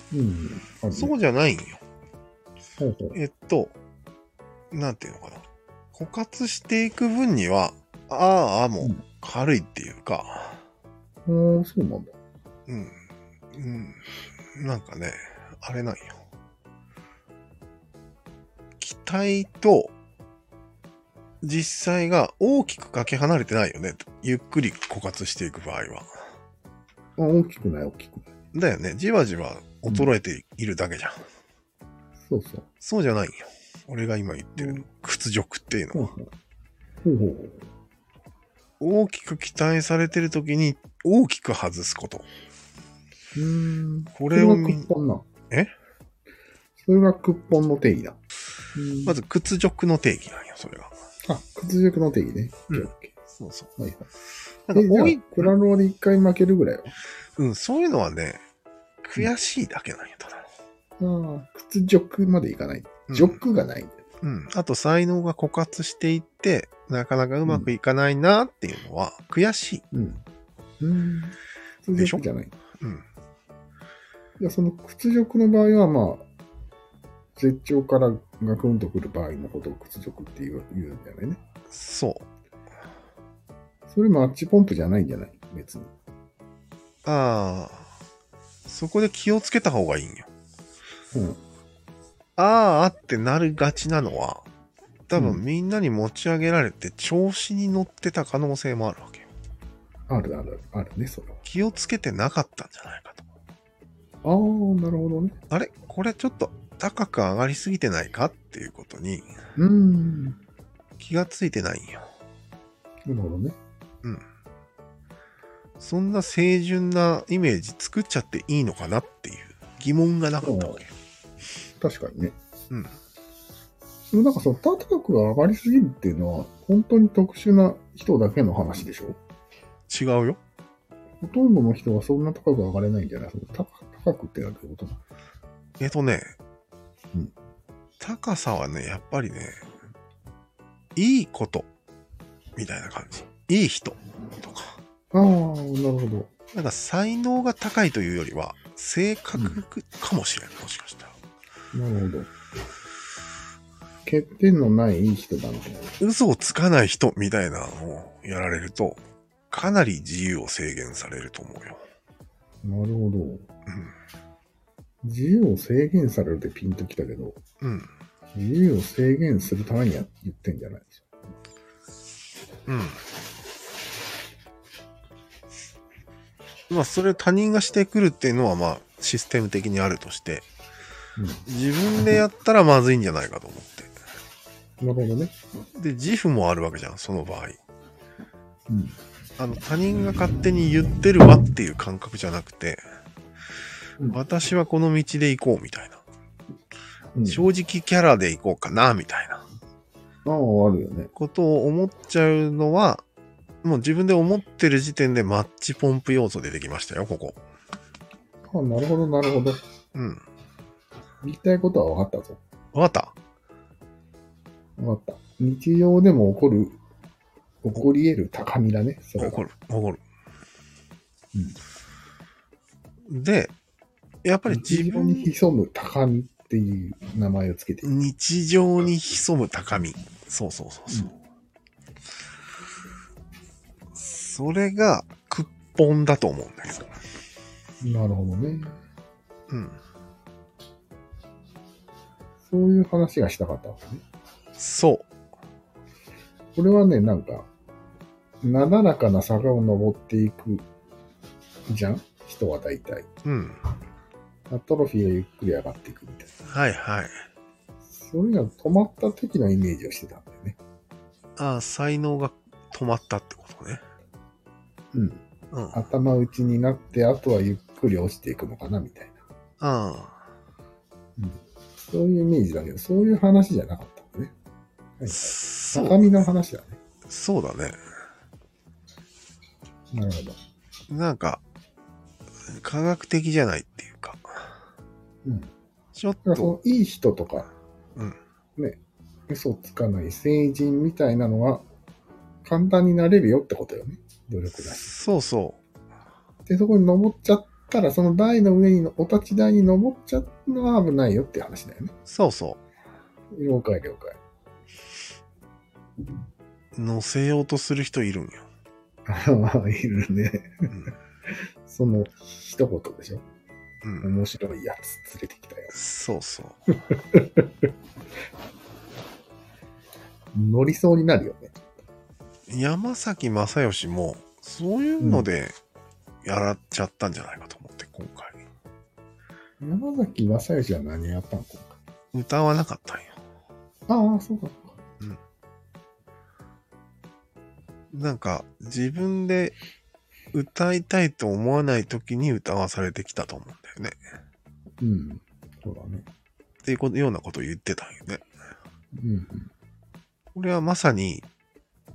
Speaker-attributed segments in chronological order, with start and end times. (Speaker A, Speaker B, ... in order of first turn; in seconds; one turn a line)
Speaker A: 0.1-1.1
Speaker B: 0.9-1.8
Speaker A: 2.8-3.2
Speaker B: 3.1-3.8
Speaker B: 4.7-10.6
Speaker A: 11.3-12.2
Speaker B: 12.7-13.0
Speaker B: 13.5-16.2
Speaker B: 18.8-19.9
Speaker B: 21.4-26.1
Speaker A: 27.2-28.3
Speaker B: 28.5-31.2
Speaker A: 32.2-32.7
Speaker B: 32.8-36.1
Speaker A: 34.6-34.9
Speaker A: 35.9-36.3
Speaker A: 37.0-37.6
Speaker B: 38.8-42.3
Speaker A: 43.4-45.3
Speaker B: 44.1-44.9
Speaker A: 46.8-48.2
Speaker A: 48.8-49.2
Speaker B: 49.1-50.9
Speaker A: 51.2-53.1
Speaker B: 52.7-53.7
Speaker A: 53.8-54.1
Speaker B: 54.7-55.5
Speaker A: 54.7-57.0
Speaker B: 57.4-58.4
Speaker B: 59.0-60.5
Speaker A: 61.0-64.0
Speaker B: 63.1-63.4
Speaker B: 64.2-69.8
Speaker A: 69.9-70.2
Speaker A: 70.8-72.5
Speaker B: 72.0-72.2
Speaker B: 72.8-73.0
Speaker A: 74.4-76.2
Speaker A: 77.4-81.4
Speaker B: 81.7-82.3
Speaker A: 83.9-85.9
Speaker B: 87.0-87.9
Speaker B: 88.7-90.3
Speaker A: 91.1-91.4
Speaker B: 92.4-94.5
Speaker B: 95.1-99.3
Speaker A: 95.2-95.4
Speaker A: 100.1-101.4
Speaker B: 101.5-103.2
Speaker A: 104.2-105.4
Speaker B: 105.5-109.3
Speaker A: 109.6-110.4
Speaker B: 111.0-112.1
Speaker A: 113.1-113.6
Speaker B: 115.8-120.9
Speaker A: 120.4-120.8
Speaker A: 121.8-122.3
Speaker B: 122.7-123.0
Speaker A: 124.1-129.2
Speaker B: 129.9-130.4
Speaker A: 131.2-135.0
Speaker B: 135.8-136.3
Speaker B: 138.0-139.6
Speaker B: 140.9-141.7
Speaker B: 142.6-144.8
Speaker A: 145.1-146.3
Speaker B: 146.5-151.2
Speaker A: 151.7-152.3
Speaker A: 154.1-156.0
Speaker B: 156.0-161.8
Speaker A: 162.6-163.5
Speaker B: 163.7-163.9
Speaker A: 165.0-167.4
Speaker B: 167.6-167.9
Speaker A: 168.3-171.1
Speaker B: 172.7-173.0
Speaker B: 176.7-180.4
Speaker A: 181.2-181.4
Speaker B: 181.5-183.9
Speaker A: 184.8-185.3
Speaker B: 185.8-187.6
Speaker A: 188.7-189.0
Speaker B: 189.4-192.8
Speaker B: 194.1-196.0
Speaker A: 197.2-197.5
Speaker B: 197.3-199.4
Speaker A: 200.2-201.1
Speaker B: 201.2-203.0
Speaker B: 203.6-207.4
Speaker A: 208.5-209.6
Speaker B: 209.9-210.2
Speaker A: 211.2-212.4
Speaker B: 212.7-213.2
Speaker A: 214.8-216.8
Speaker A: 217.6-219.4
Speaker B: 219.2-220.0
Speaker B: 223.1-223.5
Speaker B: 224.2-225.3
Speaker A: 224.5-227.9
Speaker B: 227.8-231.1
Speaker B: 233.9-236.9
Speaker A: 237.8-238.8
Speaker B: 239.5-239.8
Speaker A: 242.5-244.0
Speaker B: 244.6-245.1
Speaker A: 246.6-247.5
Speaker A: 248.4-250.7
Speaker A: 251.7-253.1
Speaker B: 253.2-253.6
Speaker A: 254.5-256.3
Speaker B: 256.5-257.2
Speaker A: 257.9-260.6
Speaker B: 261.4-263.8
Speaker A: 264.9-265.2
Speaker B: 265.5-265.8
Speaker A: 265.7-269.2
Speaker B: 269.6-270.3
Speaker A: 271.2-274.3
Speaker A: 275.0-276.8
Speaker B: 275.1-276.0
Speaker B: 277.1-277.8
Speaker A: 279.9-280.4
Speaker B: 280.9-281.4
Speaker B: 282.5-284.6
Speaker A: 285.2-285.5
Speaker B: 285.9-286.6
Speaker A: 286.2-287.5
Speaker A: 288.6-291.6
Speaker A: 292.4-294.9
Speaker B: 294.6-295.6
Speaker A: 296.5-301.9
Speaker B: 302.1-302.6
Speaker A: 303.3-304.2
Speaker B: 306.8-308.4
Speaker A: 309.1-310.9
Speaker A: 311.7-313.2
Speaker B: 313.8-314.1
Speaker A: 314.0-315.8
Speaker B: 315.7-316.6
Speaker A: 316.9-317.5
Speaker A: 320.3-321.7
Speaker B: 322.5-325.6
Speaker A: 325.0-325.3
Speaker B: 326.2-328.4
Speaker A: 329.6-331.8
Speaker B: 332.1-333.2
Speaker A: 333.9-334.8
Speaker B: 337.9-339.6
Speaker B: 340.3-344.0
Speaker A: 344.8-346.1
Speaker B: 346.6-348.2
Speaker A: 348.9-349.5
Speaker B: 350.4-351.3